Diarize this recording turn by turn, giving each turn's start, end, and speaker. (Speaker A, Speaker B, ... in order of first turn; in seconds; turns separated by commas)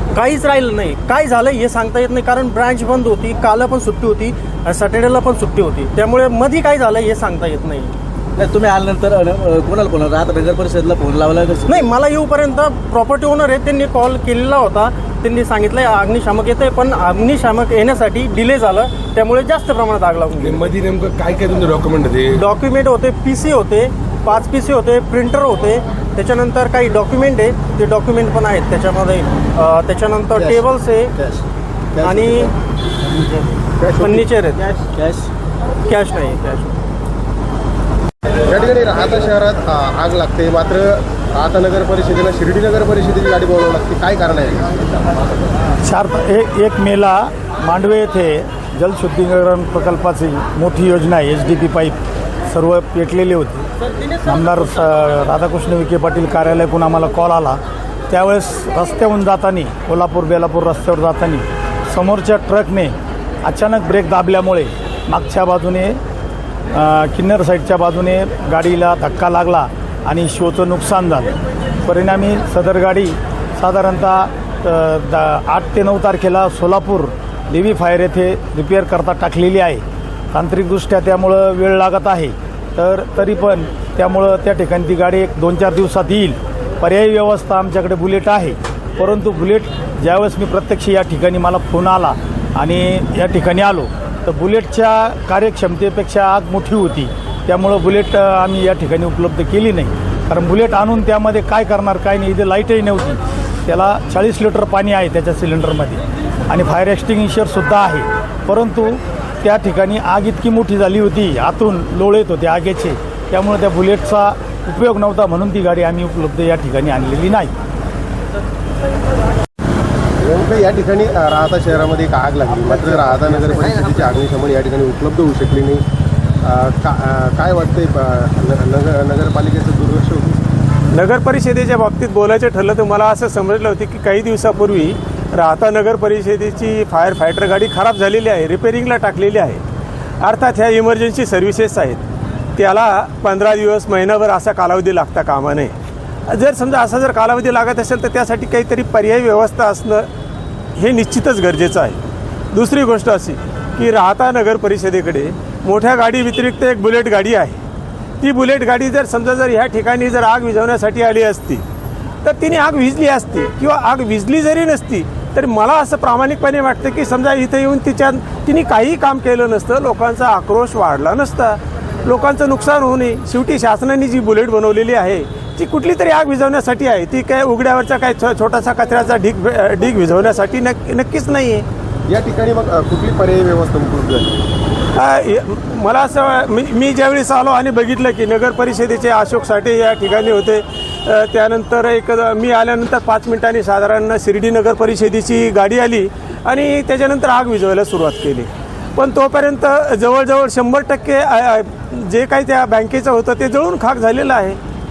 Speaker A: 0.1-8.0, Speaker B: 8.3-11.8, Speaker A: 11.7-20.7, Speaker C: 20.4-22.4, Speaker A: 22.3-31.1, Speaker A: 32.0-32.5, Speaker D: 33.8-34.2, Speaker A: 34.0-34.6, Speaker B: 34.9-35.3, Speaker A: 35.9-36.7, Speaker D: 38.5-44.8, Speaker E: 45.9-47.1, Speaker E: 47.6-51.9, Speaker E: 52.5-53.6, Speaker E: 54.3-57.6, Speaker E: 58.1-62.9, Speaker E: 63.5-65.9, Speaker E: 66.8-71.3, Speaker E: 71.8-79.8, Speaker E: 80.3-92.1, Speaker E: 92.6-117.5, Speaker D: 120.2-125.8, Speaker D: 126.4-130.4, Speaker F: 130.9-139.6, Speaker F: 140.2-142.0, Speaker F: 142.6-145.7, Speaker F: 146.3-150.1, Speaker F: 150.8-152.0, Speaker F: 152.5-157.6, Speaker F: 158.2-161.6, Speaker F: 162.2-181.7, Speaker D: 182.1-184.4, Speaker F: 184.9-204.6